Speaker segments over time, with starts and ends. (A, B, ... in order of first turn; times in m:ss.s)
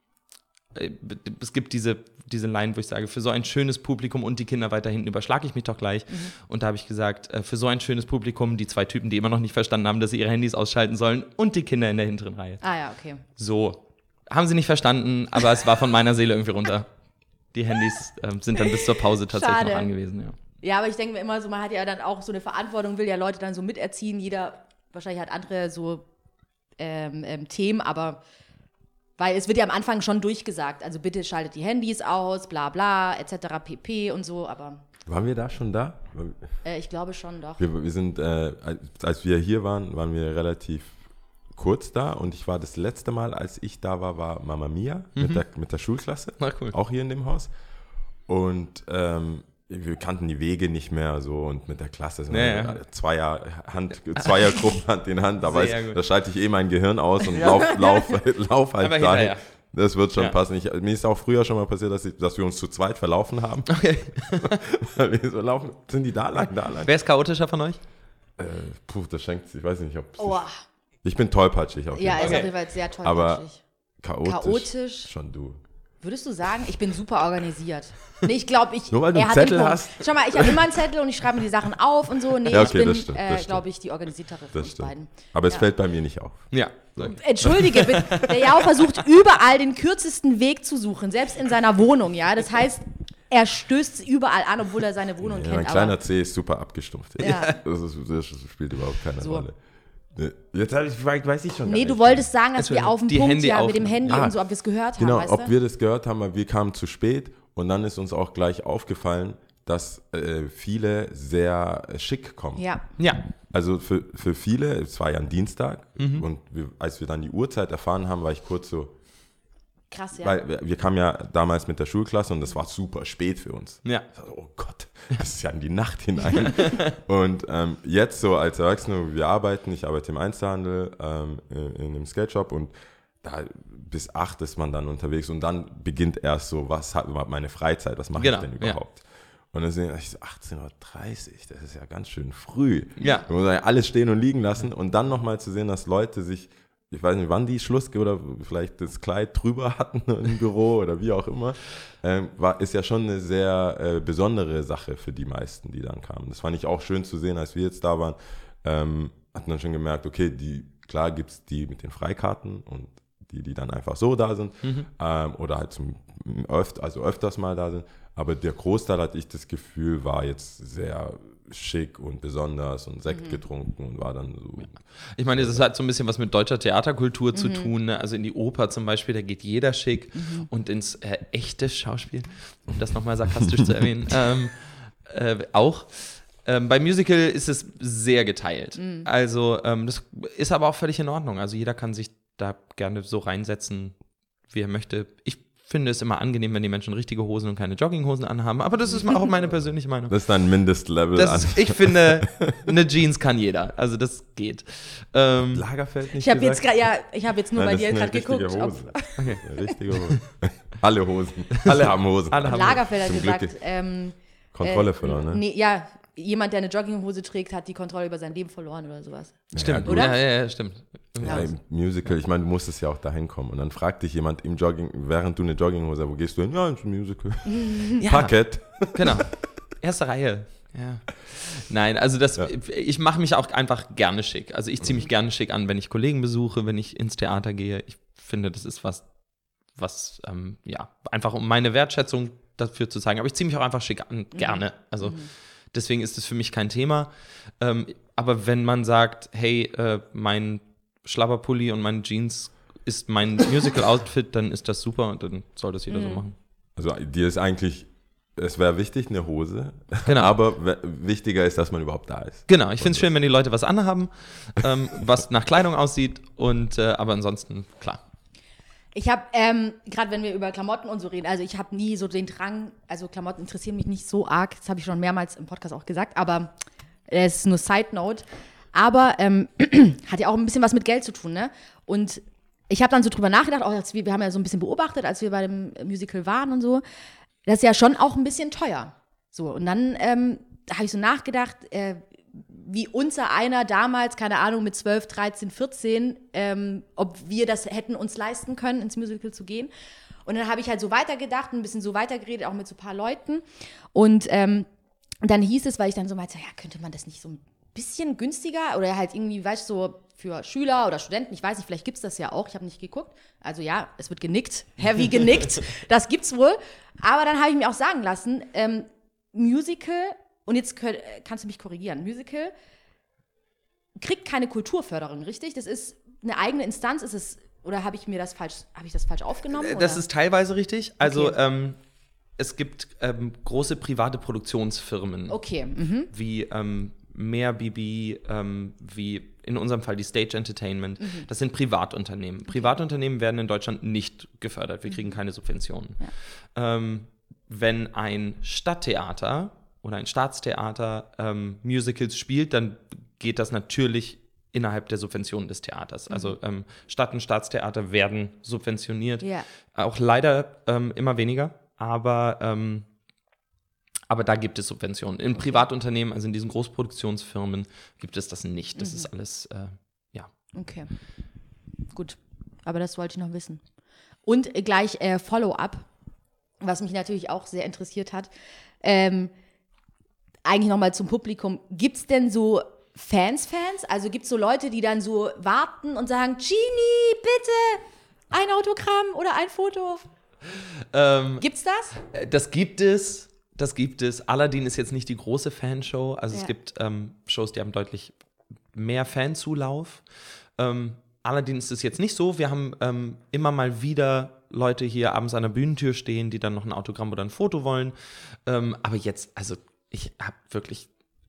0:00.7-0:12.6 A
0:12.6-0:13.2 B
0:13.4-0:16.9 A
0:17.5-0:20.4 A
0:18.6-0:19.9 B
0:20.6-0:26.0 B
0:26.8-0:28.2 B
0:29.2-0:34.8 B
0:35.0-0:36.4 C
0:36.6-0:37.6 B
0:37.6-0:41.0 C
0:41.5-0:47.5 C
0:45.1-0:45.4 A
0:46.4-0:46.7 A
0:48.3-1:06.9 C
0:52.3-0:52.8 A
0:55.4-0:56.0 A
0:57.3-0:57.6 A
0:58.8-0:59.4 A
1:03.7-1:04.6 A
1:06.8-1:07.8 A
1:08.4-1:10.4 C
1:10.2-1:10.5 B
1:11.0-1:13.4 C
1:11.9-1:13.6 B
1:12.2-1:12.5 A
1:14.0-1:15.6 C
1:14.2-1:15.1 B
1:16.0-1:25.7 B
1:18.9-1:20.6 C
1:22.4-1:23.6 C
1:24.5-1:27.7 C
1:26.5-1:29.0 A
1:27.0-1:36.0 B
1:35.2-1:39.5 C
1:37.2-1:37.6 B
1:37.2-1:37.5 A
1:39.2-1:39.4 B
1:40.1-1:42.3 C
1:41.6-1:45.5 B
1:42.6-1:44.0 A
1:44.0-1:44.4 C
1:45.0-1:52.6 C
1:52.6-1:52.9 B
1:53.0-1:53.2 A
1:53.5-1:59.0 C
1:56.0-1:56.2 A
1:59.9-2:00.4 B
2:00.2-2:54.8 C
2:06.4-2:06.8 A
2:18.2-2:18.8 A
2:23.0-2:23.2 A
2:44.6-2:44.9 A
2:53.1-2:53.4 B
2:55.1-3:20.2 A
2:55.3-2:55.6 C
2:57.3-2:57.7 B
3:00.1-3:00.5 B
3:08.8-3:09.1 B
3:20.1-3:22.5 C
3:21.1-3:25.6 A
3:25.5-3:26.8 C
3:26.1-3:29.7 B
3:27.5-3:33.5 C
3:29.2-3:29.4 A
3:32.3-3:32.8 A
3:32.4-3:40.6 B
3:34.5-3:35.4 C
3:39.5-3:40.2 C
3:39.6-3:41.5 A
3:41.2-3:49.4 C
3:47.5-3:48.0 B
3:48.0-4:16.3 A
4:04.3-4:05.3 B
4:15.9-4:16.2 B
4:16.8-4:23.1 C
4:20.0-4:20.3 A
4:22.5-4:28.0 A
4:28.9-4:36.5 B
4:37.1-4:46.8 B
4:47.4-4:59.7 B
5:00.2-5:04.7 B
5:05.2-5:22.5 B
5:24.0-5:30.0 B
5:29.6-5:31.8 A
5:31.0-5:31.3 B
5:32.3-5:35.4 A
5:35.3-5:36.1 B
5:36.1-6:02.9 A
5:41.0-5:41.3 B
5:44.9-5:45.1 B
5:56.1-5:56.4 B
5:59.2-5:59.5 B
6:04.1-6:10.3 A
6:05.4-6:05.6 B
6:08.8-6:09.1 B
6:10.5-6:10.9 B
6:11.9-6:13.6 B
6:14.2-6:15.9 B
6:16.6-6:18.3 B
6:18.8-6:19.3 B
6:20.4-6:30.1 B
6:30.6-6:31.4 A
6:31.4-6:31.9 B
6:32.0-6:38.2 A
6:38.7-6:40.0 A
6:40.6-6:50.9 A